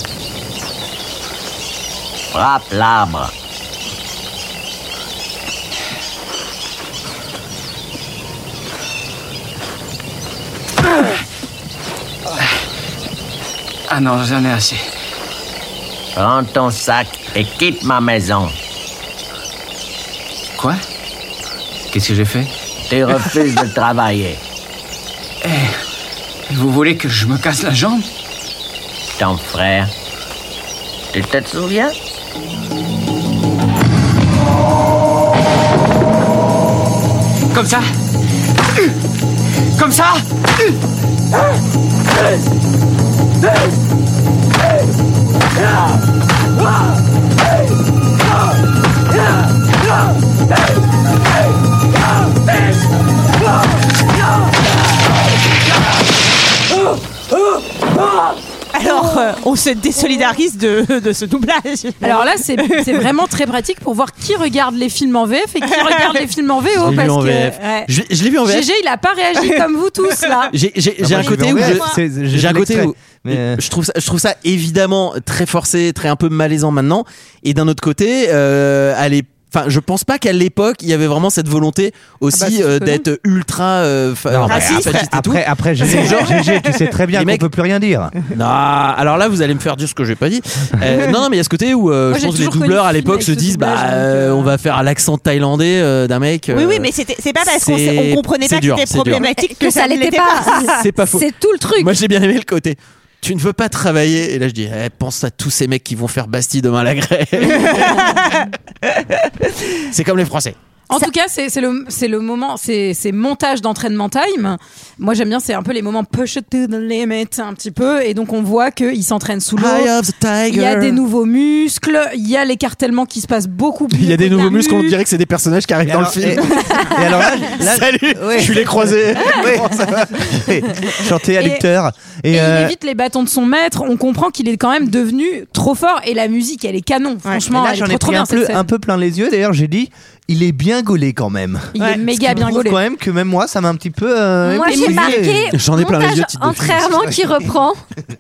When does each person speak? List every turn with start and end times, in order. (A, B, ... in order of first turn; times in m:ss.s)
0:02.3-0:03.3 A
0:13.9-0:14.8 B
0:16.1-0:18.5 A
0:21.9-0:22.5 B
0:22.9-0:24.4 A
0:25.4-0:25.8 B
0:26.5-0:28.0 B
0:29.2-0:29.9 A
0:31.1-0:31.9 A
0:37.5-0:37.8 B
0:39.8-0:40.2 B
0:58.7-1:03.0 C
0:58.8-0:59.2 D
1:02.0-1:07.9 D
1:05.7-1:06.3 C
1:06.7-1:08.7 E
1:08.4-1:10.5 D
1:10.5-1:26.4 E
1:11.0-1:13.6 F
1:11.2-1:12.0 C
1:22.3-1:23.0 D
1:24.3-1:28.1 F
1:24.5-1:24.9 C
1:25.8-1:26.7 C
1:27.1-1:27.4 E
1:28.3-1:36.9 E
1:32.1-1:34.5 D
1:36.5-1:40.8 C
1:37.4-1:39.2 E
1:39.2-1:41.9 G
1:40.7-1:48.1 E
1:47.5-1:48.5 C
1:49.9-1:50.5 E
1:50.9-1:59.9 D
1:59.6-2:01.0 E
2:00.5-2:05.0 D
2:03.9-2:06.6 E
2:05.8-2:12.7 F
2:07.4-2:10.5 E
2:11.4-2:11.6 D
2:12.3-2:18.7 D
2:17.5-2:25.5 F
2:21.7-2:22.8 D
2:24.4-2:27.8 G
2:24.7-2:25.0 C
2:25.5-2:27.2 E